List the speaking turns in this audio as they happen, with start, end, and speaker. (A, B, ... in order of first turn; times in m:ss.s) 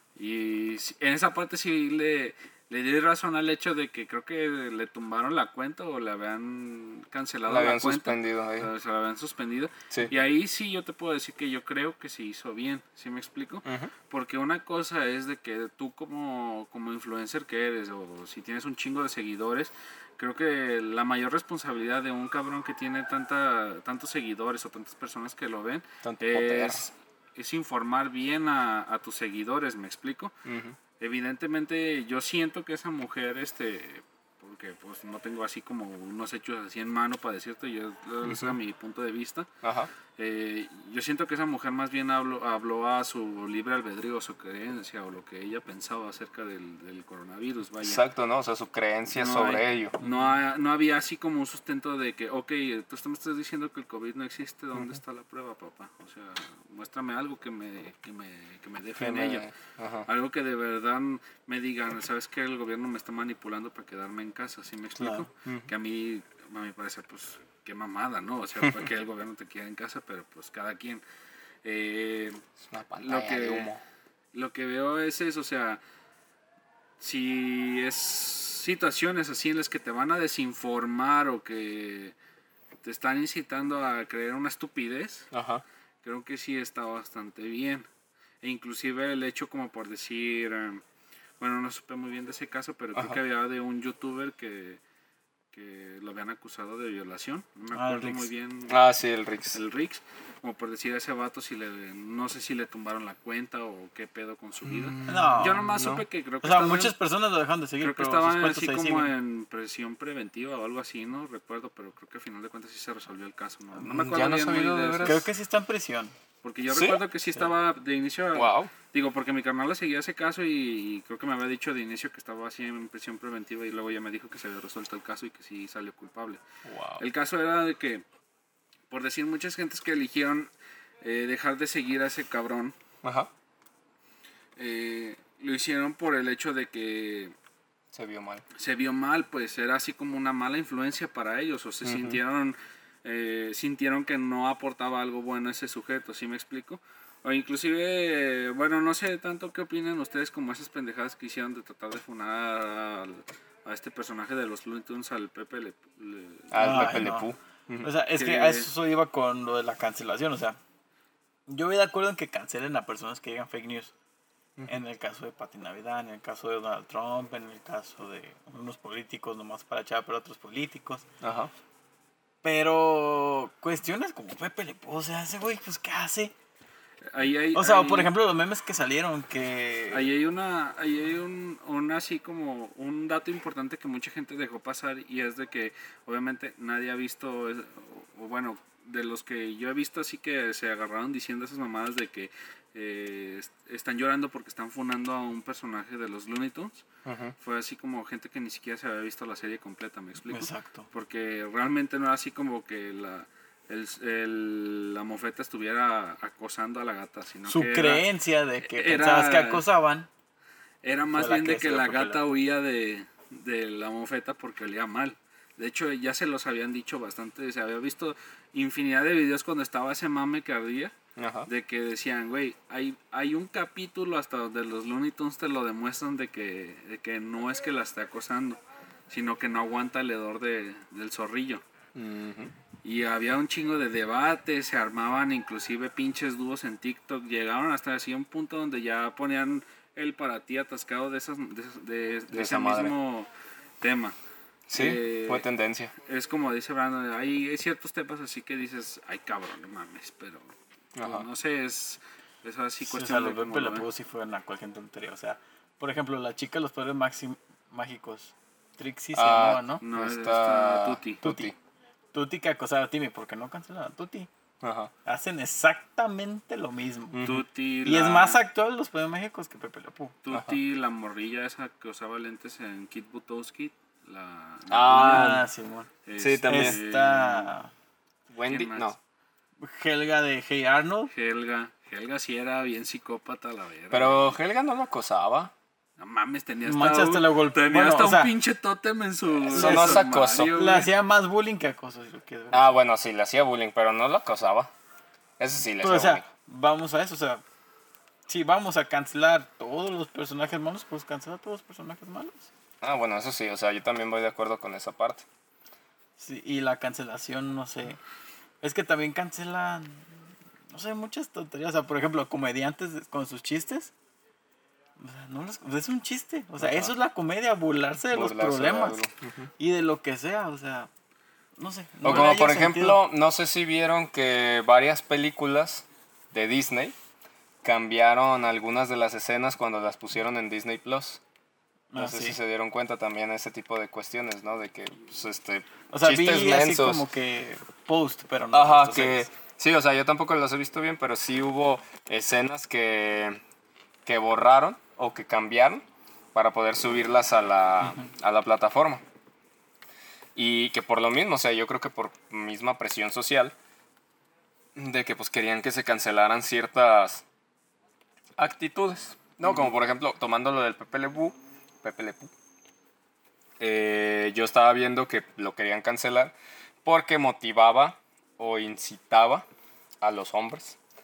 0:00.2-0:30.4 A
0:07.4-0:08.7 B
0:13.6-0:13.9 B
0:26.0-0:26.9 B
0:30.4-0:30.8 B
0:31.0-0:39.5 A
0:38.2-0:38.5 B
0:39.6-0:39.9 B
0:40.2-0:48.0 A
0:47.8-0:50.0 B
0:49.1-0:59.5 A
0:50.0-0:50.3 C
0:59.0-1:00.1 B
1:00.0-1:11.0 A
1:05.0-1:05.3 C
1:11.6-1:12.4 A
1:12.6-1:13.8 B
1:13.0-1:13.8 A
1:14.3-1:15.8 A
1:17.0-1:22.1 A
1:22.8-1:25.3 A
1:25.3-1:25.6 B
1:26.0-1:27.9 A
1:28.4-1:30.8 A
1:31.4-1:34.8 A
1:35.5-1:38.8 A
1:37.7-1:38.3 C
1:38.7-1:39.6 B
1:39.5-1:46.9 A
1:44.6-1:46.0 B
1:45.0-1:45.6 C
1:46.4-1:49.1 C
1:47.8-1:55.2 A
1:53.9-1:55.2 B
1:55.0-1:56.1 C
1:56.4-2:06.4 A
1:56.7-1:57.0 B
1:58.3-1:58.7 B
2:06.6-2:07.0 B
2:07.0-2:08.0 A
2:08.9-2:10.5 A
2:11.0-2:12.7 A
2:13.0-2:13.3 B
2:14.6-2:17.3 A
2:17.9-2:18.4 B
2:18.5-2:37.0 A
2:21.8-2:22.2 B
2:36.5-2:37.9 B
2:36.6-2:37.3 C
2:37.8-2:40.6 C
2:38.1-2:38.7 A
2:41.5-2:43.9 C
2:44.7-2:51.0 C
2:51.2-2:51.5 B
2:52.4-2:56.3 C
2:57.1-2:58.1 A
2:57.5-3:00.1 C
2:59.9-3:16.8 A
3:17.0-3:17.3 B
3:17.4-3:28.0 A
3:20.3-3:20.9 C
3:27.5-3:30.1 C
3:28.6-3:29.6 A
3:30.8-3:40.9 A
3:31.1-3:32.2 C
3:41.2-3:41.5 B
3:41.4-3:51.6 A
3:51.9-3:52.5 B
3:52.8-4:03.3 A
4:02.3-4:02.9 B
4:03.8-4:04.2 A
4:04.7-4:05.9 B
4:04.7-4:05.4 A
4:06.0-4:13.8 A
4:11.0-4:11.3 B
4:12.8-4:19.8 C
4:19.1-4:21.5 B
4:19.8-4:21.2 A
4:21.2-4:21.5 C
4:22.1-4:24.3 C
4:24.6-4:24.9 B
4:25.0-4:27.3 C
4:27.1-4:27.4 B
4:27.2-4:28.4 A
4:27.8-4:30.2 C
4:30.2-4:35.4 A
4:34.7-4:35.4 B
4:34.9-4:35.9 C
4:36.0-4:37.5 A
4:36.2-4:36.8 B
4:36.5-4:37.7 C
4:38.3-4:39.0 B
4:38.4-4:38.9 A
4:39.6-4:41.1 C
4:41.1-4:44.4 A
4:43.9-4:45.5 B
4:46.0-4:50.9 A
4:46.7-4:48.3 C
4:49.4-4:50.5 B
4:49.5-4:52.7 C
4:52.5-4:54.7 B
4:55.4-4:56.2 B
4:55.8-4:57.4 C
4:58.3-5:02.5 C
5:02.8-5:05.2 B
5:06.2-5:08.0 C
5:08.6-5:10.2 C
5:10.7-5:13.9 C
5:15.0-5:19.0 C
5:16.6-5:16.9 B
5:18.1-5:19.5 B
5:19.6-5:20.9 C
5:21.6-5:23.0 C
5:22.0-5:26.9 B
5:27.6-5:31.2 B
5:31.9-5:32.4 C
5:32.0-5:37.0 B
5:35.9-5:39.3 C
5:38.5-5:43.4 B
5:44.0-5:49.0 B
5:50.4-5:53.5 B
5:54.7-5:57.2 B
5:58.4-6:02.3 B
6:03.6-6:09.4 B
6:10.0-6:10.8 B